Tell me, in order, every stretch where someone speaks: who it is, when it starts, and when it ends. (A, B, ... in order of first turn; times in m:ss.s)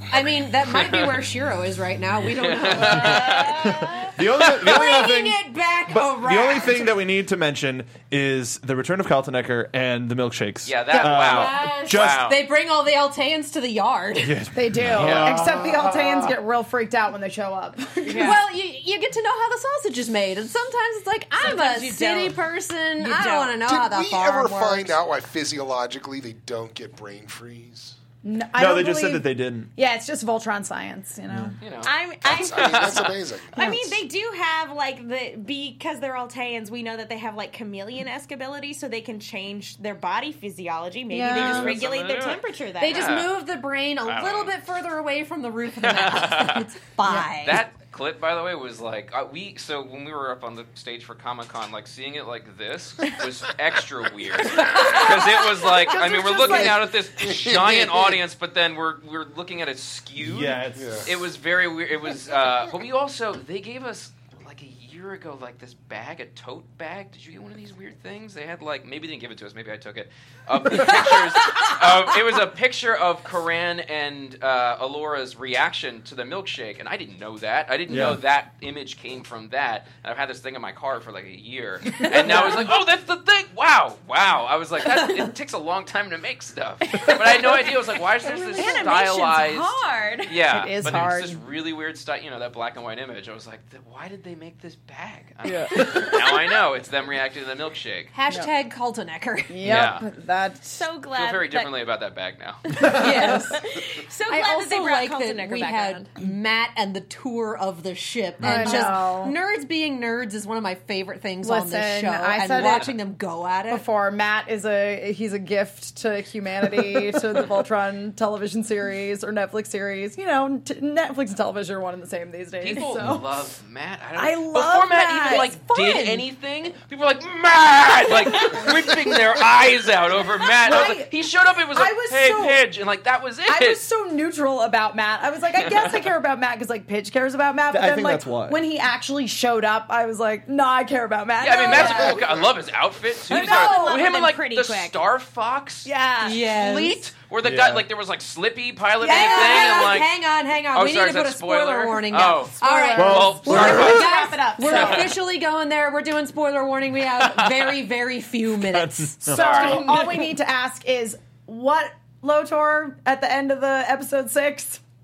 0:00.1-0:03.7 A
0:00.8-0:01.1 B
0:02.4-0:03.6 B
0:03.3-0:04.0 C
0:03.6-0:12.3 D
0:04.4-0:04.9 B
0:04.5-0:06.9 A
0:10.6-0:12.4 B
0:10.9-0:11.2 E
0:11.1-0:14.4 A
0:14.2-0:16.3 D
0:14.5-0:18.4 E
0:18.0-0:18.4 C
0:18.1-0:25.0 A
0:21.4-0:22.4 C
0:23.0-0:23.6 C
0:23.6-0:28.0 F
0:28.2-0:31.6 E
0:28.6-0:29.7 D
0:31.3-0:31.6 D
0:31.6-0:33.2 B
0:31.8-0:32.9 C
0:32.2-0:33.6 F
0:33.5-0:43.2 C
0:33.6-0:34.0 E
0:41.1-0:41.8 E
0:41.3-0:43.3 B
0:42.8-0:47.6 A
0:44.0-0:44.5 B
0:45.8-1:38.1 B
0:54.6-0:56.8 E
0:56.4-0:58.2 F
1:00.2-1:01.1 D
1:00.8-1:01.0 F
1:17.9-1:18.2 D
1:22.2-1:22.5 E
1:27.0-1:27.7 C
1:28.2-1:30.4 C
1:28.6-1:28.8 E
1:30.4-1:31.4 E
1:30.8-1:31.1 D
1:35.4-1:36.4 E
1:35.5-1:36.2 D
1:38.1-1:39.8 A
1:39.5-1:40.8 E
1:39.6-1:40.0 B
1:40.7-1:41.7 C
1:41.1-1:43.1 B
1:42.8-1:43.2 D
1:42.8-1:46.0 C
1:42.9-1:43.6 A
1:44.3-1:53.8 A
1:48.4-1:48.8 D
1:48.4-1:49.3 E
1:51.4-1:53.0 E
1:52.6-1:52.8 B
1:53.7-2:03.4 E
2:02.6-2:13.8 B
2:04.2-2:05.5 E
2:05.2-2:06.2 A
2:10.6-2:11.1 E
2:11.7-2:12.6 E
2:13.4-2:22.3 E
2:15.5-2:16.1 B
2:17.7-2:18.6 D
2:21.4-2:30.1 B
2:21.6-2:22.1 C
2:23.3-2:25.0 C
2:23.3-2:24.0 E
2:25.8-2:26.4 E
2:26.2-2:27.0 A
2:27.4-2:27.9 D
2:29.0-2:30.0 E
2:29.0-2:39.2 A
2:30.7-2:35.1 B
2:32.3-2:35.2 E
2:33.0-2:34.0 D
2:37.2-2:37.6 B
2:38.6-2:39.9 D
2:39.2-2:44.8 E
2:39.3-2:40.3 B